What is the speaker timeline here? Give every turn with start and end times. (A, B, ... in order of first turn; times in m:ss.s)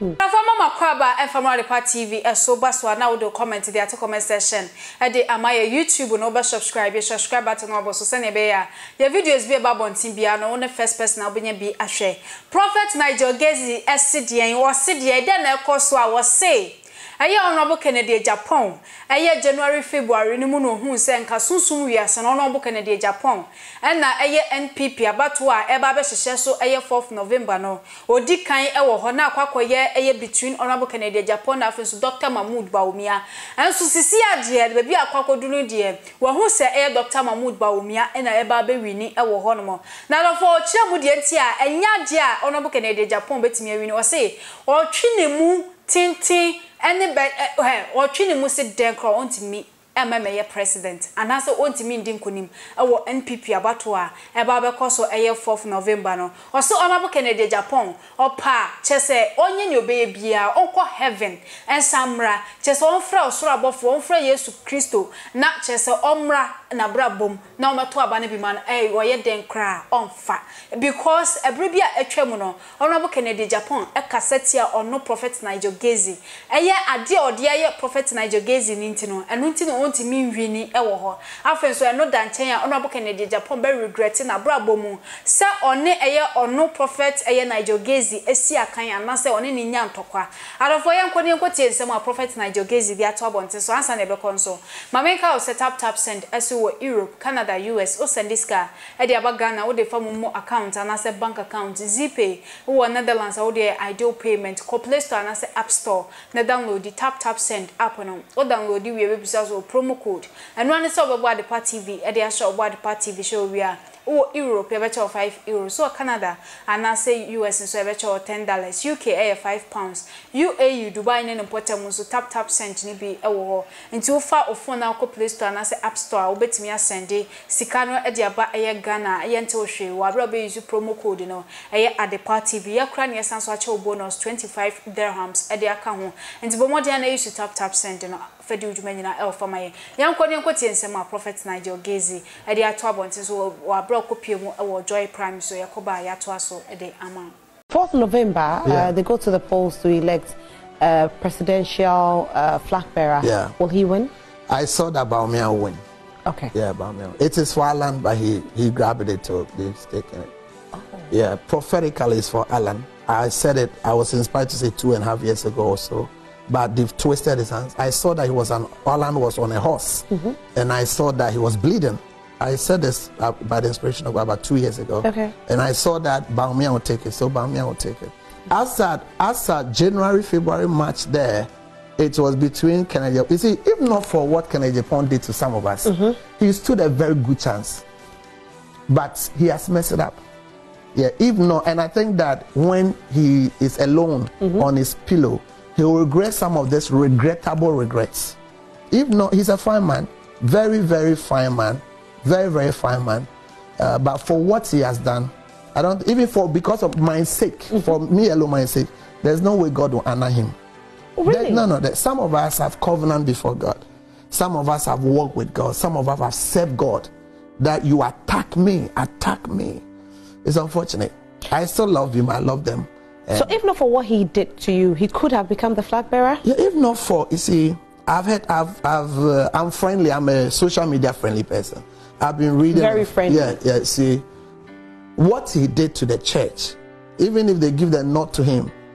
0:00.2-2:27.4 A
2:27.7-2:34.1 B
2:28.6-2:28.9 C
2:33.2-2:33.5 C
2:34.5-2:35.8 C
2:36.2-2:36.5 B
2:36.5-2:40.3 C
2:40.8-2:41.1 B
2:41.1-3:07.8 C
2:55.0-2:55.3 B
3:08.9-3:10.2 C
3:10.9-3:18.4 C
3:18.9-3:30.6 C
3:31.2-3:31.6 B
3:31.3-3:39.8 C
3:40.4-3:43.5 C
3:43.3-3:46.4 B
3:46.4-3:54.2 C
3:52.7-3:53.6 B
3:55.2-3:58.7 C